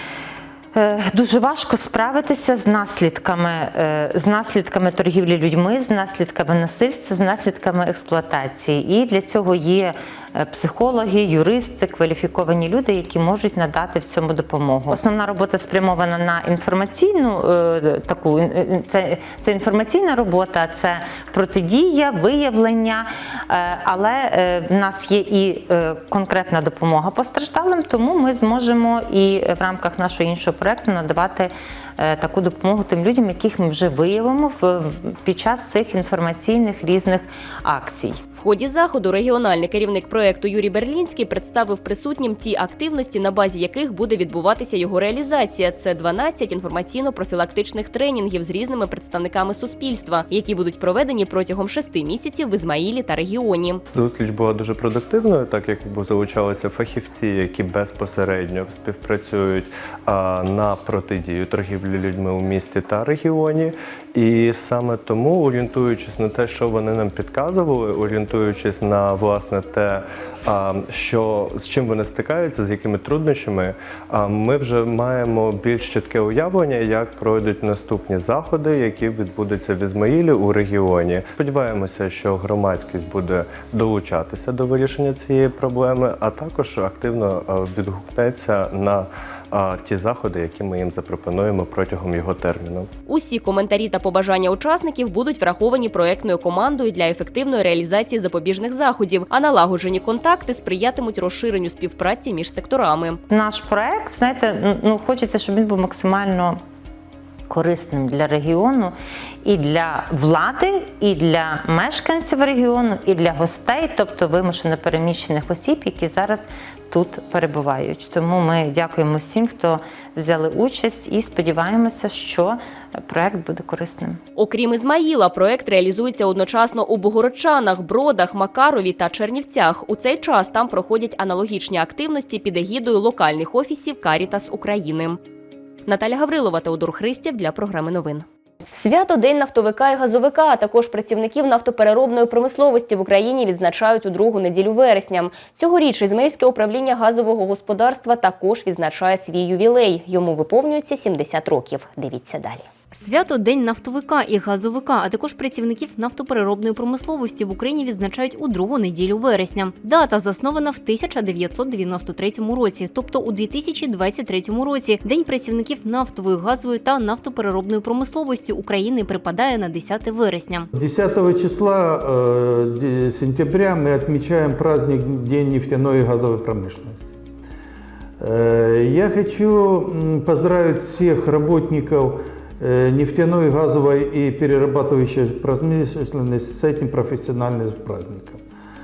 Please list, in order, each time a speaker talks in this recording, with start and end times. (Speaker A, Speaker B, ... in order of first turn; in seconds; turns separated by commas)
Speaker A: 0.7-38.2, Speaker B: 38.3-53.8, Speaker C: 53.9-92.9, Speaker B: 93.1-103.2, Speaker A: 103.3-106.6, Speaker A: 107.5-124.2, Speaker B: 124.3-135.2, Speaker B: 135.8-152.7, Speaker D: 152.9-170.7, Speaker E: 170.7-177.2, Speaker E: 178.2-188.4